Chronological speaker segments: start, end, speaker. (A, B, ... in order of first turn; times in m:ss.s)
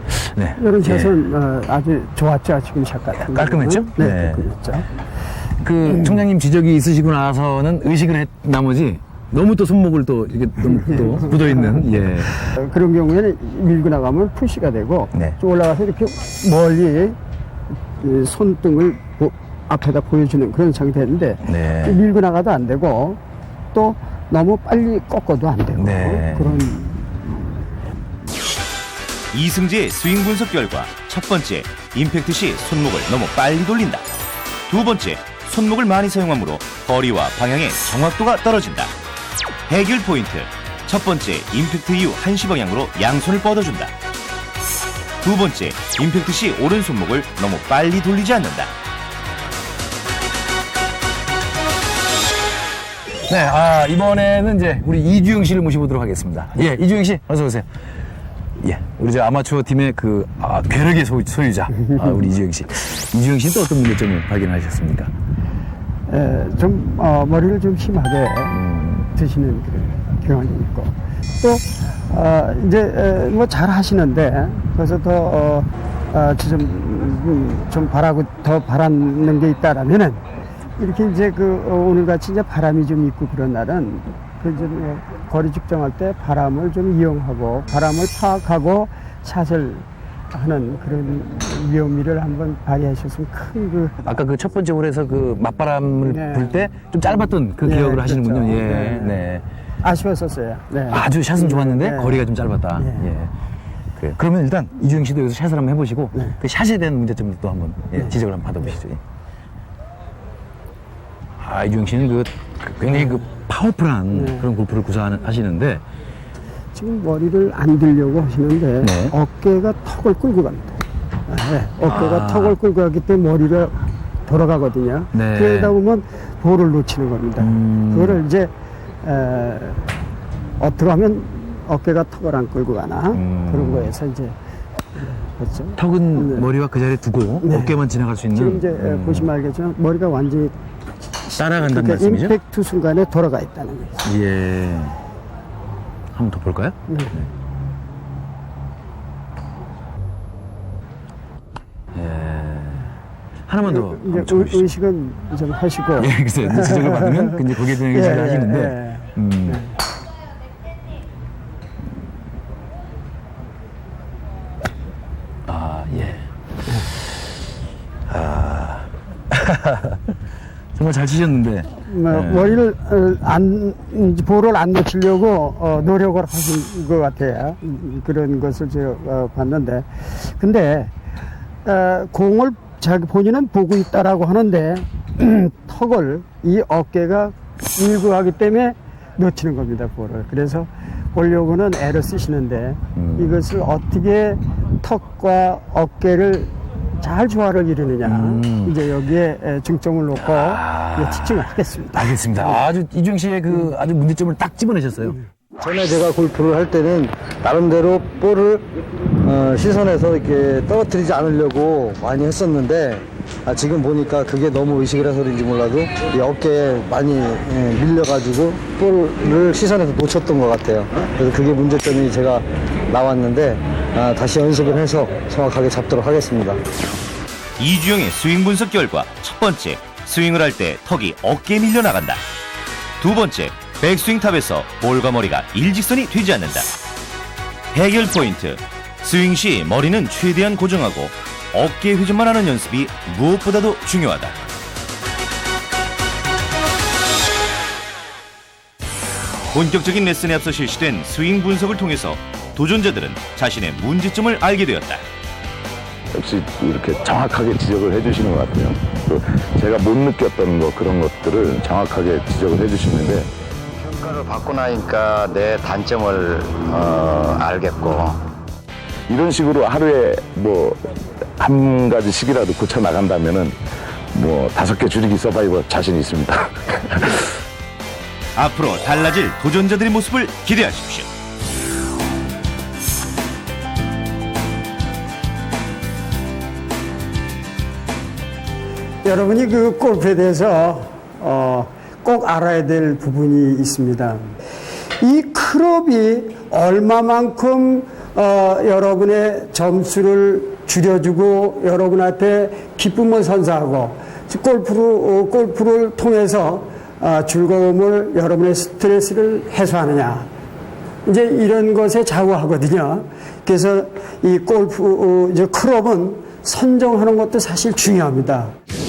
0:00.2-0:01.2 A
0:00.6-0:04.9 B
0:03.2-0:04.5 A
0:05.6-0:12.3 A
0:10.7-0:17.2 B
0:18.0-0:23.2 B
0:21.4-0:22.0 A
0:23.7-0:27.6 B
0:25.8-0:26.6 A
0:29.3-0:34.1 C
0:34.7-0:38.9 C
0:39.7-0:43.9 C
0:45.2-0:48.7 C
0:53.3-0:57.7 A
0:58.6-1:05.1 A
1:01.9-1:02.3 B
1:06.1-1:20.2 B
1:08.5-1:09.1 A
1:20.8-1:34.2 B
1:34.0-1:39.5 A
1:36.0-1:36.7 B
1:37.6-1:39.2 B
1:39.8-1:43.1 B
1:40.9-1:43.3 A
1:44.0-1:49.0 A
1:51.4-1:55.8 A
1:54.1-1:54.4 B
1:56.8-2:08.5 B
1:58.8-1:59.1 A
2:01.9-2:02.6 A
2:05.1-2:05.7 A
2:07.4-2:08.2 A
2:09.0-2:09.9 B
2:10.6-2:14.4 B
2:13.1-2:13.9 A
2:15.0-2:16.5 B
2:15.8-2:19.3 A
2:17.4-2:17.8 B
2:18.3-2:20.5 B
2:21.1-2:24.1 B
2:21.4-2:22.4 A
2:24.0-2:25.0 A
2:26.1-2:26.8 A
2:26.9-2:27.2 B
2:31.9-2:32.9 A
2:33.5-2:34.7 A
2:33.6-2:39.7 B
2:36.0-2:39.6 A
2:45.5-2:46.3 A
2:48.1-2:50.1 A
2:50.8-2:52.6 A
2:51.8-3:00.9 B
3:01.6-3:22.4 B
3:13.0-3:13.4 A
3:18.0-3:18.8 A
3:20.2-3:25.2 A
3:25.6-3:28.7 D
3:29.2-3:46.6 D
3:47.6-3:52.2 C
3:53.0-3:56.7 C
3:57.7-4:04.4 C
4:09.5-4:15.0 C
4:16.1-4:23.3 E
4:23.8-4:28.2 F
4:29.1-4:33.6 E
4:34.1-4:37.3 E
4:38.4-4:41.1 C
4:49.0-4:54.4 B
4:55.0-5:10.3 B
5:11.1-5:18.5 B